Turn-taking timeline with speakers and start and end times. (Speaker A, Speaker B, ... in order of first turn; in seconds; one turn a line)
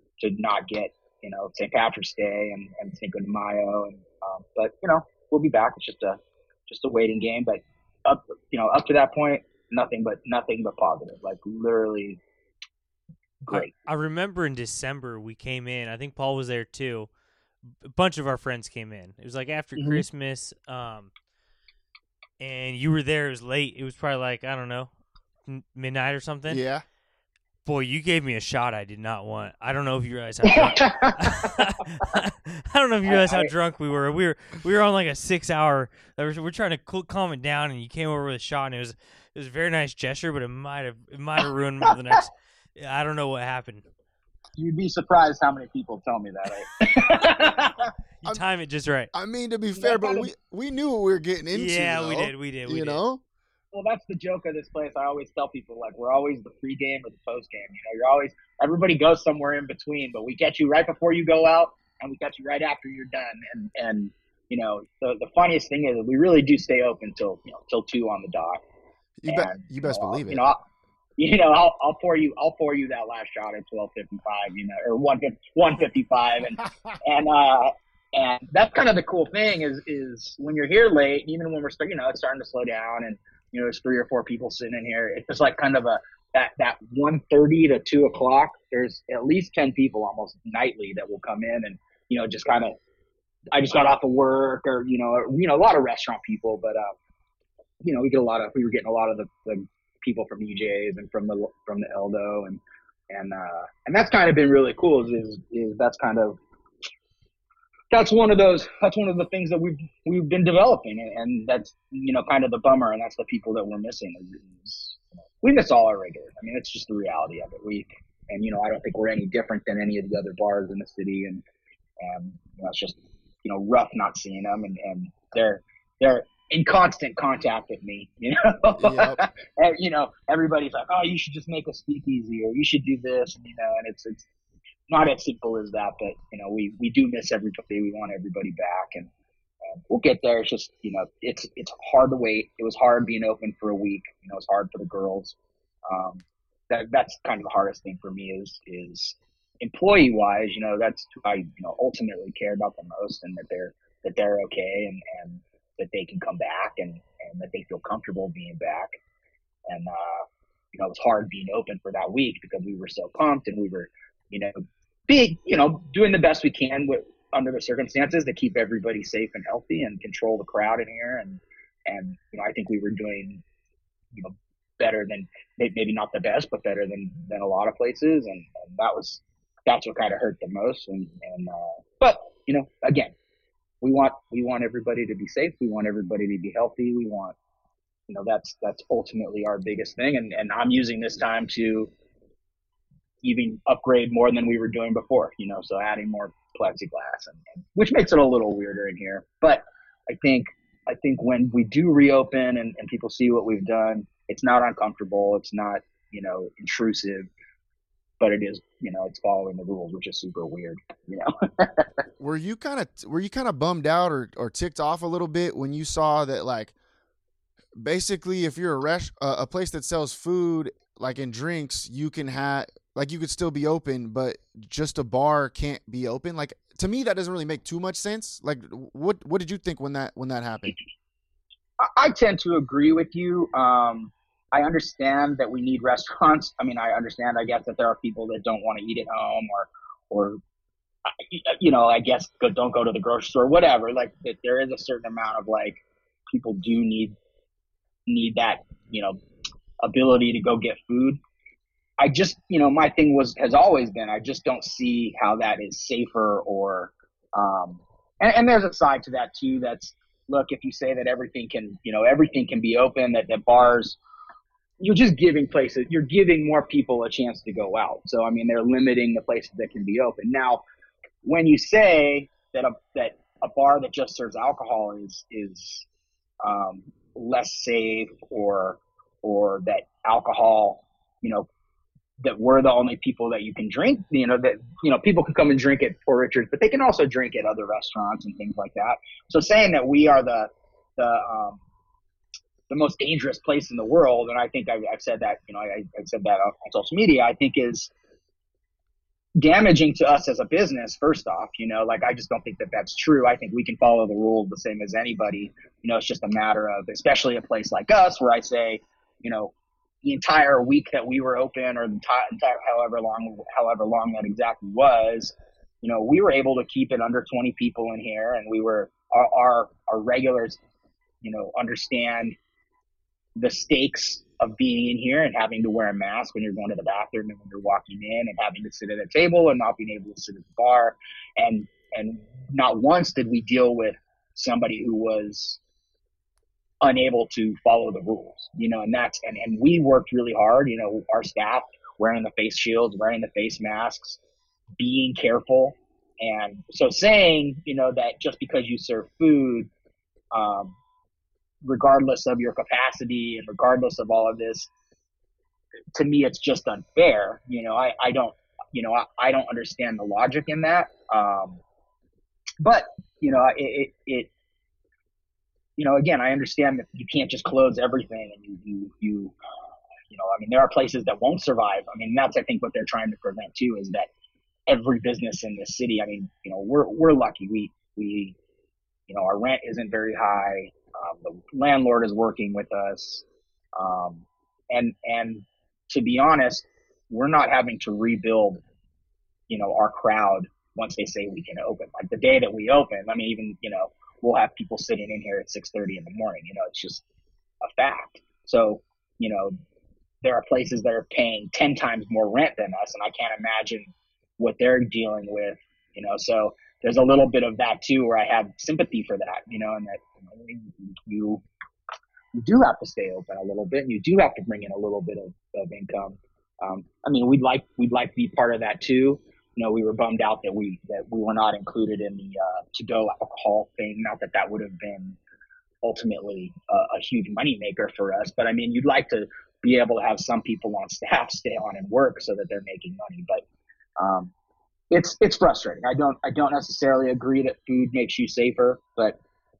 Speaker A: 0.2-12.2
Speaker A: 13.4-13.7
Speaker B: 13.5-17.1
Speaker B: 17.8-21.1
Speaker A: 19.8-20.0
Speaker B: 22.4-24.9
Speaker B: 25.5-26.6
Speaker C: 26.5-26.8
Speaker B: 27.6-43.9
Speaker A: 30.4-31.5
Speaker A: 33.1-33.5
Speaker A: 44.6-47.9
Speaker B: 48.2-49.1
Speaker C: 49.1-53.2
Speaker A: 49.8-50.3
Speaker B: 51.5-53.0
Speaker A: 53.7-68.6
Speaker C: 69.2-70.5
Speaker A: 69.3-70.6
Speaker A: 71.2-92.8
Speaker C: 76.7-77.0
Speaker A: 93.5-96.9
Speaker A: 97.8-106.4
Speaker A: 107.9-121.4
Speaker A: 122.0-134.3
Speaker C: 128.8-129.2
Speaker A: 134.9-139.1
Speaker A: 139.7-145.4
Speaker A: 145.9-158.9
Speaker A: 159.7-173.4
Speaker A: 174.1-183.1
Speaker A: 183.8-187.3
Speaker A: 188.1-191.9
Speaker A: 193.2-207.3
Speaker A: 208.2-211.9
Speaker C: 212.2-216.7
Speaker C: 217.8-230.8
Speaker A: 231.8-240.4
Speaker A: 241.2-247.2
Speaker A: 248.1-249.2
Speaker A: 249.8-251.2
Speaker A: 252.0-264.0
Speaker A: 264.8-270.6
Speaker A: 271.2-275.9
Speaker A: 276.4-281.5
Speaker A: 282.2-291.6
Speaker A: 292.7-297.9
Speaker A: 299.4-309.5
Speaker A: 310.0-320.6
Speaker A: 321.2-322.4
Speaker A: 323.4-335.6
Speaker A: 336.8-344.2
Speaker A: 344.8-349.7
Speaker A: 350.3-350.8
Speaker A: 351.6-354.7
Speaker A: 355.9-361.6
Speaker A: 362.6-364.3
Speaker A: 365.8-369.4
Speaker A: 370.1-374.1
Speaker A: 374.7-378.4
Speaker A: 379.1-383.2
Speaker A: 383.8-388.6
Speaker A: 389.5-397.0
Speaker A: 397.6-399.6
Speaker A: 400.2-411.4
Speaker A: 412.4-425.2
Speaker A: 425.8-433.4
Speaker A: 434.0-434.3
Speaker A: 434.9-439.2